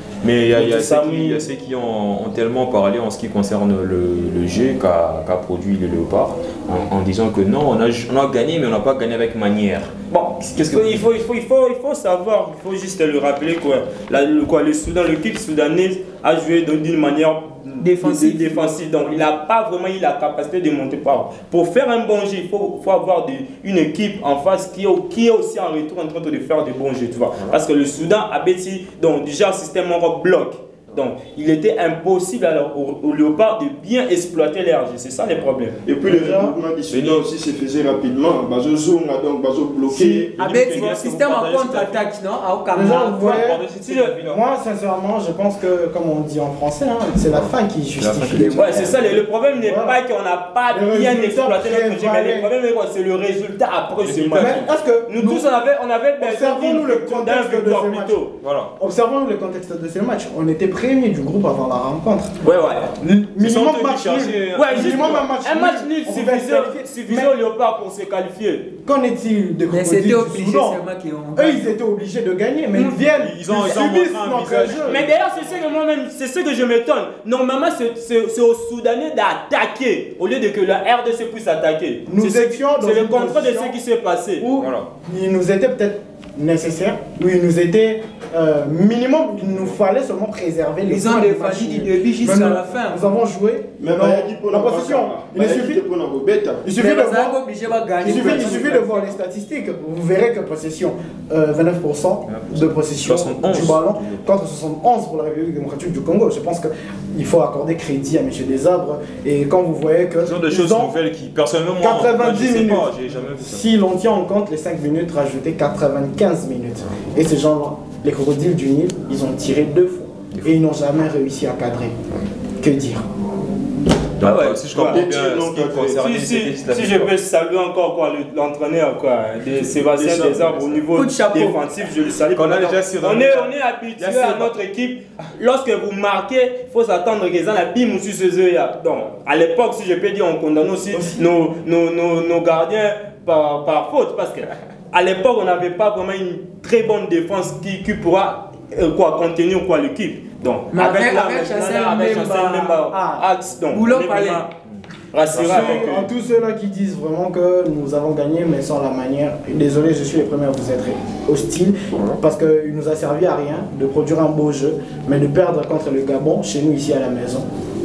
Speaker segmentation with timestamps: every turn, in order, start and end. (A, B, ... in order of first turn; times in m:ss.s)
0:00.2-0:11.1 A
0:00.5-0:01.4 B
0:10.1-0:35.8 B
0:17.8-0:19.2 C
0:27.4-0:27.6 A
0:35.8-0:40.4 D
0:36.0-0:36.5 E
0:36.9-0:37.2 A
0:39.9-0:42.0 A
0:40.3-0:43.4 C
0:42.7-0:49.0 E
0:43.1-0:44.4 A
0:43.8-0:44.2 B
0:47.3-0:49.2 A
0:48.5-0:58.3 B
0:49.6-0:50.0 E
0:50.7-0:52.5 E
0:54.0-0:54.7 A
0:54.4-0:55.5 E
0:56.2-0:58.2 E
0:58.4-0:58.7 A
0:58.8-1:02.3 E
1:02.4-1:02.9 B
1:03.0-1:07.3 E
1:03.4-1:05.2 A
1:04.6-1:08.7 B
1:08.8-1:10.8 E
1:09.7-1:11.8 C
1:11.3-1:15.0 E
1:13.1-1:15.5 A
1:14.8-1:24.4 B
1:22.1-1:23.8 E
1:24.4-1:35.8 E
1:24.6-1:24.9 A
1:30.9-1:33.1 C
1:33.8-1:36.7 D
1:36.6-1:37.4 E
1:36.7-1:39.0 C
1:38.0-1:50.9 E
1:38.0-1:38.7 D
1:42.3-1:44.2 A
1:50.2-1:53.6 A
1:51.8-2:02.0 E
2:02.6-2:03.0 E
2:04.2-2:07.1 A
2:04.2-2:05.0 B
2:04.7-2:06.0 D
2:06.0-2:34.5 B
2:09.8-2:10.6 D
2:10.9-2:11.6 C
2:12.3-2:14.5 A
2:20.9-2:21.2 E
2:30.7-2:34.4 C
2:35.1-2:36.1 B
2:35.3-2:35.9 A
2:35.3-2:47.4 E
2:41.9-2:42.2 A